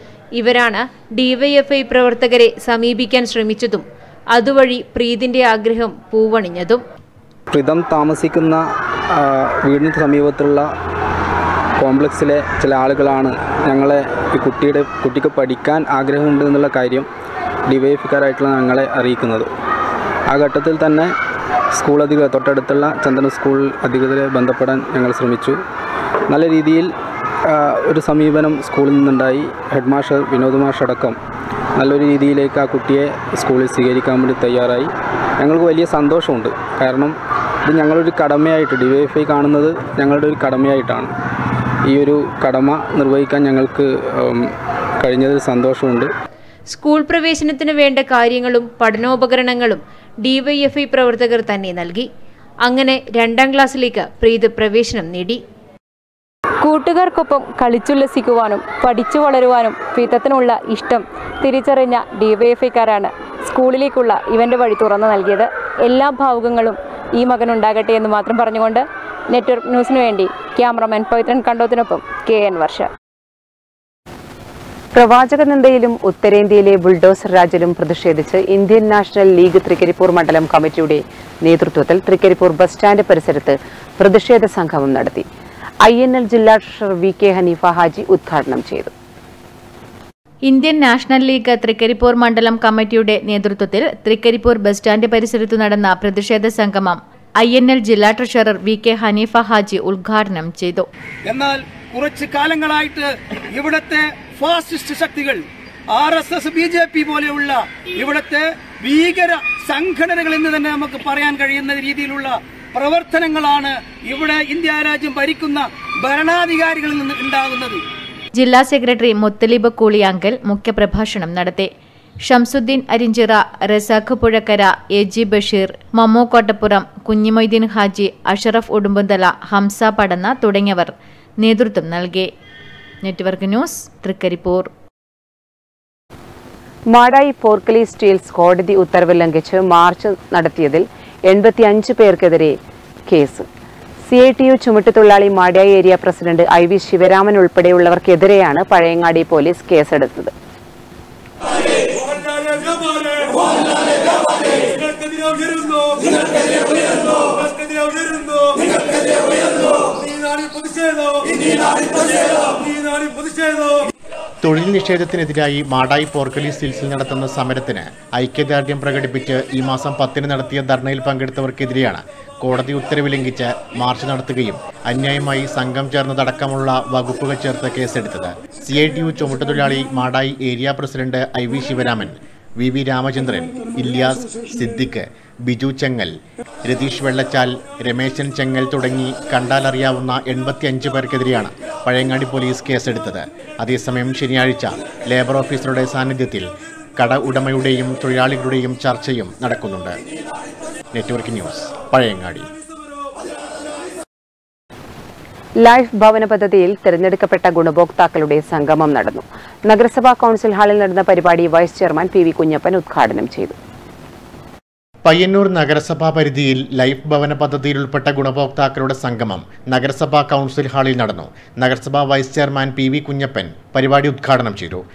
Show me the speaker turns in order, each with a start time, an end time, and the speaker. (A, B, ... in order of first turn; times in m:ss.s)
0:00.4-0:06.8 A
0:07.5-0:10.7 B
0:11.8-0:17.1 B
0:17.7-0:19.5 B
0:20.3-0:21.1 B
0:21.8-0:25.6 B
0:26.3-0:26.9 B
0:27.5-0:31.2 B
0:31.8-0:37.2 B
0:37.7-0:41.1 B
0:41.9-0:46.1 B
0:46.7-0:52.1 A
0:52.6-0:55.4 A
0:56.6-1:12.9 C
1:15.0-1:25.2 D
1:25.8-1:28.9 D
1:30.5-1:40.9 E
1:41.3-1:57.8 F
1:58.4-2:01.7 E
2:02.3-2:12.3 E
2:13.0-2:14.7 E
2:16.9-2:22.6 D
2:23.1-2:23.5 D
2:24.1-2:30.3 D
2:32.0-2:33.8 F
2:34.3-2:43.8 F
2:44.4-3:20.0 G
3:20.9-3:22.5 G
3:25.6-3:33.6 D
3:35.0-3:44.8 G